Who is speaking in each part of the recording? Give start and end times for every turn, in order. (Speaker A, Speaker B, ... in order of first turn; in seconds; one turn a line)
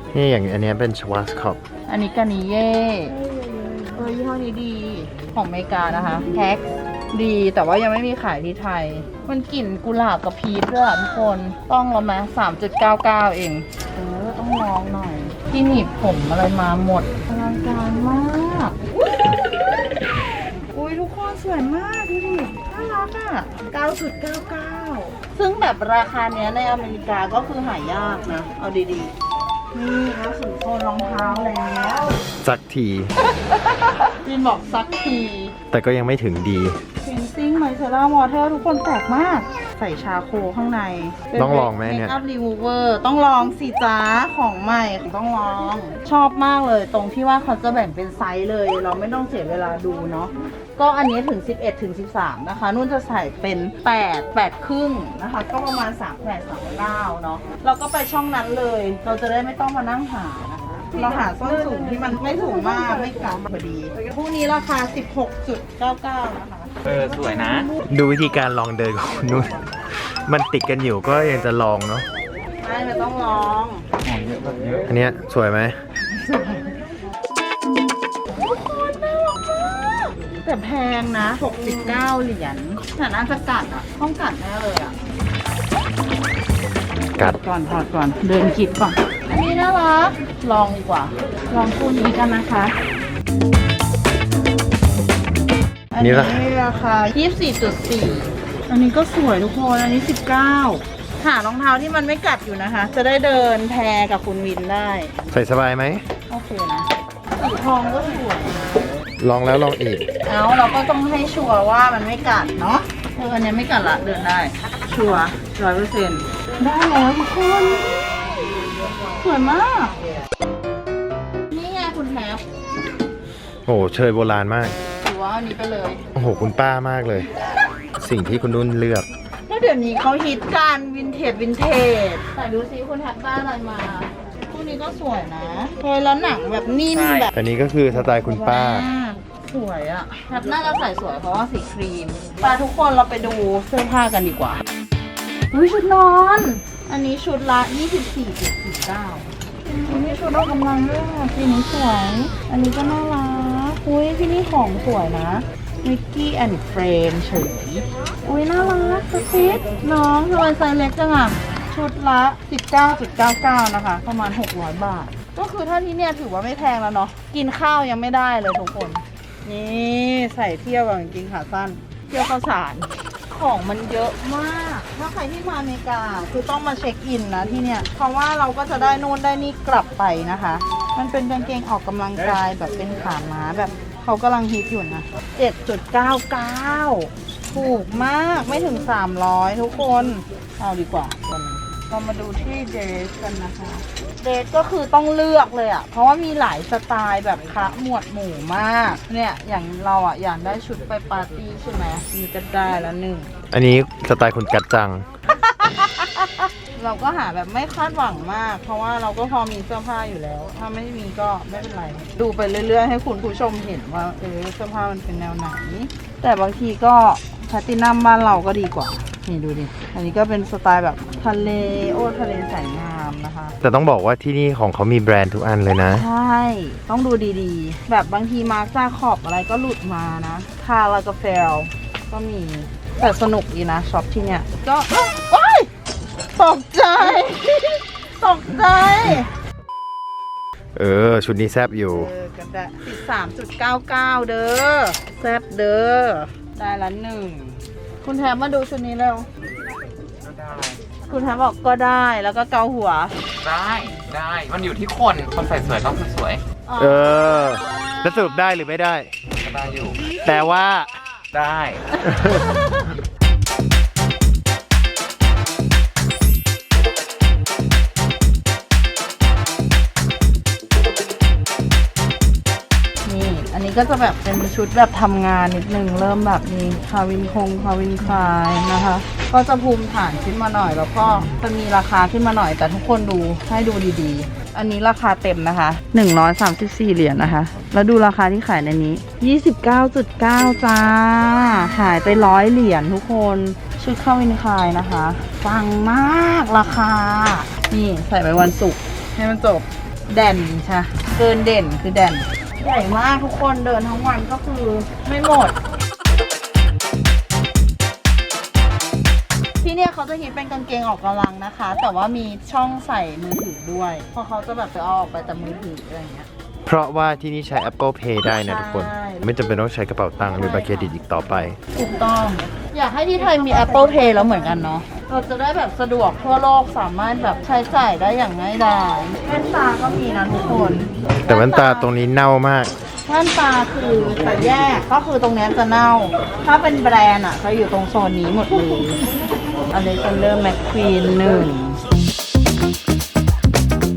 Speaker A: 0.1-1.6
Speaker B: 1.9-18.8
Speaker B: 20.7-29.1
Speaker B: 29.7-32.1
Speaker A: 32.4-33.1
Speaker B: 33.2-35.5
Speaker A: 35.7-36.8
Speaker B: 37.0-66.8
Speaker A: 41.4-42.1
Speaker C: 66.8-67.7
Speaker A: 67.9-69.6
Speaker A: 70.2-72.0
Speaker B: 72.6-73.8
Speaker C: 74.0-74.8
Speaker A: 74.9-75.8
Speaker B: 76.1-76.8
Speaker B: 78.3-85.0
Speaker B: 87.2-92.7
Speaker B: 95.9-105.1
Speaker A: 96.0-96.4
Speaker A: 105.3-106.0
Speaker B: 106.3-108.9
Speaker A: 109.2-110.0
Speaker B: 110.2-118.3
Speaker B: 119.1-120.0
Speaker B: 121.5-122.4
Speaker A: 123.7-124.8
Speaker B: 125.0-126.0
Speaker A: 126.1-127.3
Speaker A: 128.0-129.1
Speaker B: 129.5-137.3
Speaker C: 136.9-137.3
Speaker A: 137.3-138.9
Speaker B: 137.9-144.6
Speaker B: 145.5-203.3
Speaker A: 203.5-205.0
Speaker B: 205.3-223.5
Speaker A: 223.6-226.1
Speaker B: 225.9-235.7
Speaker B: 236.3-239.3
Speaker A: 240.8-242.1
Speaker B: 241.9-249.3
Speaker C: 250.2-250.8
Speaker B: 251.1-253.2
Speaker C: 253.4-256.4
Speaker B: 256.6-258.5
Speaker A: 256.8-259.1
Speaker C: 259.4-260.0
Speaker A: 260.2-260.9
Speaker C: 261.3-262.0
Speaker B: 262.0-262.9
Speaker A: 262.0-262.6
Speaker B: 273.1-305.5
Speaker B: 309.6-316.3
Speaker A: 316.6-321.6
Speaker B: 318.2-319.3
Speaker B: 320.2-320.9
Speaker B: 321.7-331.9
Speaker A: 331.3-332.7
Speaker B: 333.1-339.1
Speaker B: 339.7-341.8